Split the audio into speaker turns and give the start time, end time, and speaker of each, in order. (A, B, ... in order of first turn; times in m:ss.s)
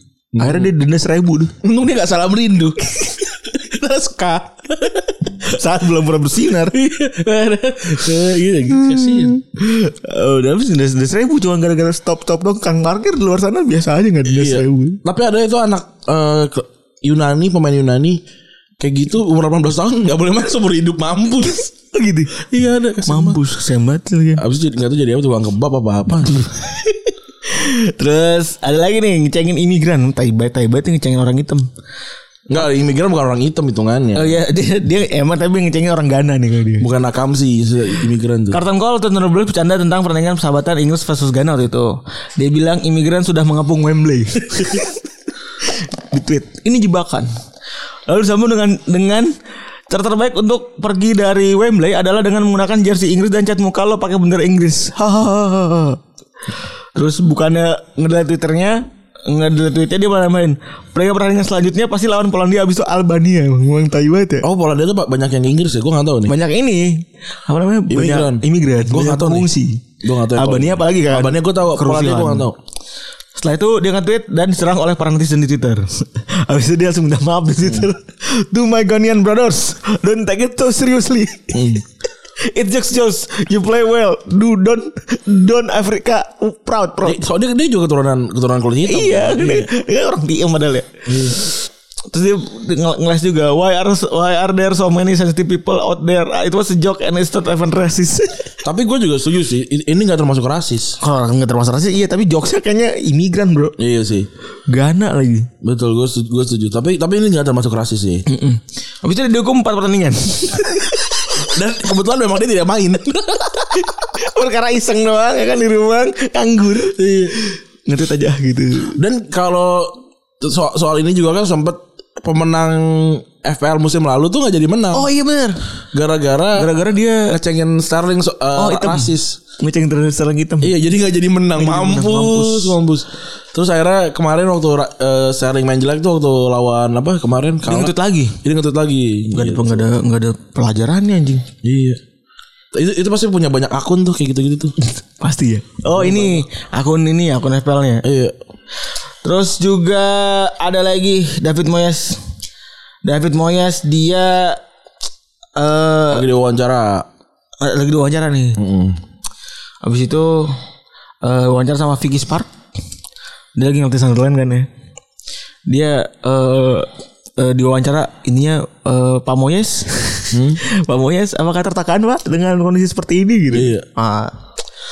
0:00.3-0:00.7 A
0:00.4-0:01.5 B
0:01.6-0:05.4 A
0:05.4-0:06.8 B
0:06.7-0:09.4 A
0:08.9-0:15.0 B
0:14.2-0:18.2 A
0:18.8-0:21.7 A
0:21.8-0:22.4 B
0:22.4-0:23.4 A
0:23.1-0:24.4 B
0:24.4-0:26.6 A
0:26.3-0:31.7 B
0:32.5-0:34.3 A
0:34.2-0:36.9 B
0:36.8-0:38.6 A
0:38.5-0:45.0 B
0:45.6-0:47.3 B
0:48.1-0:49.3 B
0:49.9-0:56.0 B
0:57.0-1:04.5 B
1:04.4-1:06.3 A
1:06.3-1:12.5 B
1:07.9-1:09.5 A
1:10.0-1:12.6 A
1:13.4-1:21.8 B
1:21.5-1:21.8 A
1:22.4-1:27.2 B
1:27.0-1:29.7 A
1:28.9-1:38.5 B
1:31.1-1:31.4 A
1:38.6-1:41.0 A
1:41.0-1:43.8 B
1:43.8-1:44.3 A
1:44.7-1:45.5 B
1:45.6-1:48.2 A
1:48.3-1:51.4 B
1:51.4-1:53.8 A
1:53.8-1:59.0 B
1:57.0-1:57.3 A
1:59.0-2:05.1 A
2:04.9-2:05.6 B
2:05.9-2:06.7 A
2:06.6-2:07.4 B
2:07.3-2:09.4 A
2:08.6-2:10.7 B
2:10.6-2:19.9 A
2:11.6-2:12.8 B
2:17.7-2:18.4 B
2:19.3-2:21.4 B
2:21.6-2:22.0 A
2:22.7-2:24.7 A
2:25.2-2:28.0 B
2:25.9-2:26.4 A
2:28.0-2:28.4 A
2:29.2-2:32.2 B
2:33.0-2:34.6 B
2:35.6-2:36.3 B
2:36.1-2:37.1 A
2:37.6-2:38.6 B
2:38.6-2:39.0 A
2:39.8-2:40.6 B
2:41.2-2:42.5 B
2:43.6-2:44.7 B
2:45.7-2:54.3 B
2:50.3-2:50.6 A
2:53.5-2:53.8 A